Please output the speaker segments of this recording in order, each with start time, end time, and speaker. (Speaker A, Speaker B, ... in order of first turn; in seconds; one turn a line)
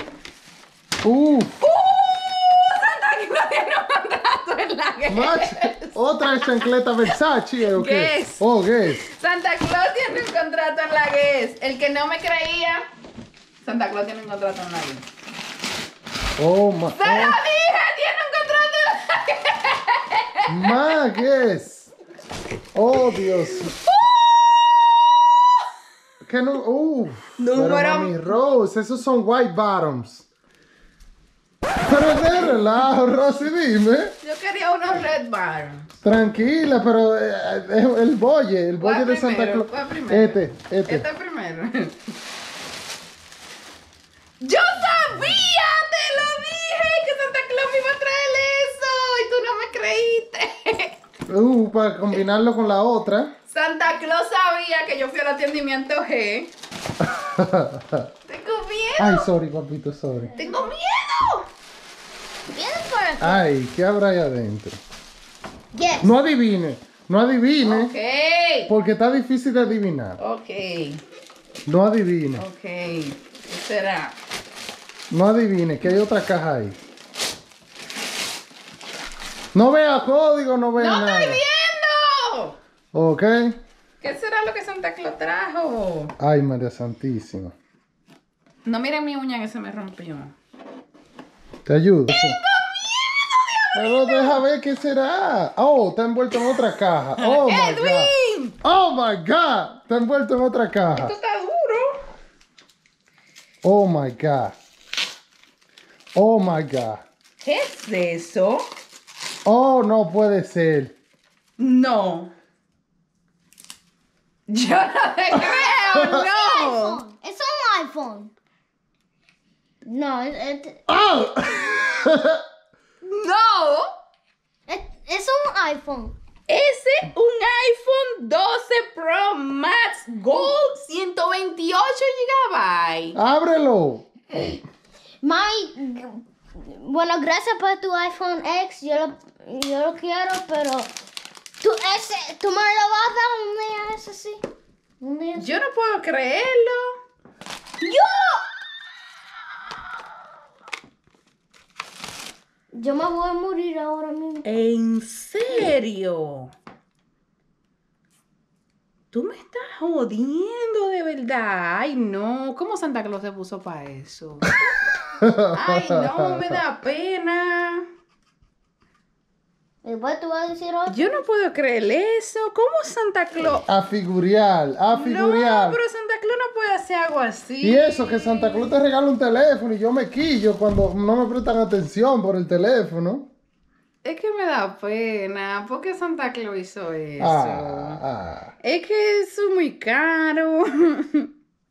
Speaker A: 1.0-1.6
Speaker B: 1.6-7.1
Speaker A: 5.1-9.0
Speaker B: 7.7-12.8
Speaker B: 13.6-15.0
Speaker A: 16.4-17.4
Speaker B: 16.9-20.9
Speaker A: 20.5-21.9
Speaker A: 22.7-23.7
Speaker B: 23.1-23.3
Speaker A: 26.2-30.3
Speaker B: 27.4-28.3
Speaker A: 31.8-34.2
Speaker B: 34.2-35.9
Speaker A: 36.0-41.1
Speaker B: 38.8-42.0
Speaker B: 44.4-50.9
Speaker A: 51.3-53.3
Speaker B: 53.5-56.5
Speaker A: 57.0-58.1
Speaker B: 58.3-59.3
Speaker A: 59.0-60.3
Speaker C: 60.4-60.7
Speaker B: 60.4-61.5
Speaker C: 62.5-63.4
Speaker A: 63.2-64.8
Speaker C: 65.7-66.2
Speaker A: 66.0-67.9
Speaker B: 67.6-68.7
Speaker A: 68.7-70.2
Speaker B: 70.2-71.0
Speaker A: 71.7-72.5
Speaker B: 72.4-74.2
Speaker A: 75.1-76.8
Speaker A: 79.5-81.4
Speaker B: 80.8-82.5
Speaker A: 82.9-83.6
Speaker B: 84.0-86.1
Speaker A: 86.2-87.5
Speaker B: 88.7-90.3
Speaker A: 91.7-92.4
Speaker B: 92.1-94.4
Speaker A: 93.7-101.1
Speaker B: 97.2-98.5
Speaker B: 100.9-102.0
Speaker A: 103.6-104.5
Speaker A: 106.1-107.0
Speaker B: 107.4-108.7
Speaker A: 109.4-110.9
Speaker B: 111.6-112.3
Speaker B: 114.5-117.0
Speaker C: 115.5-118.3
Speaker A: 115.9-116.2
Speaker C: 119.8-120.8
Speaker A: 120.9-122.4
Speaker B: 123.0-123.8
Speaker C: 124.7-126.1
Speaker B: 126.5-133.2
Speaker A: 133.1-134.1
Speaker C: 135.2-140.9
Speaker C: 141.6-144.4
Speaker C: 145.0-145.6
Speaker B: 145.3-146.9
Speaker B: 147.8-148.4
Speaker C: 152.7-154.5
Speaker B: 154.4-156.5
Speaker B: 159.1-164.5
Speaker A: 165.2-166.6
Speaker B: 165.5-167.8
Speaker C: 169.8-171.2
Speaker B: 170.9-173.6
Speaker A: 173.5-175.8
Speaker B: 174.9-177.9
Speaker A: 177.6-183.3
Speaker B: 184.0-188.0
Speaker A: 187.2-188.5
Speaker B: 188.6-191.3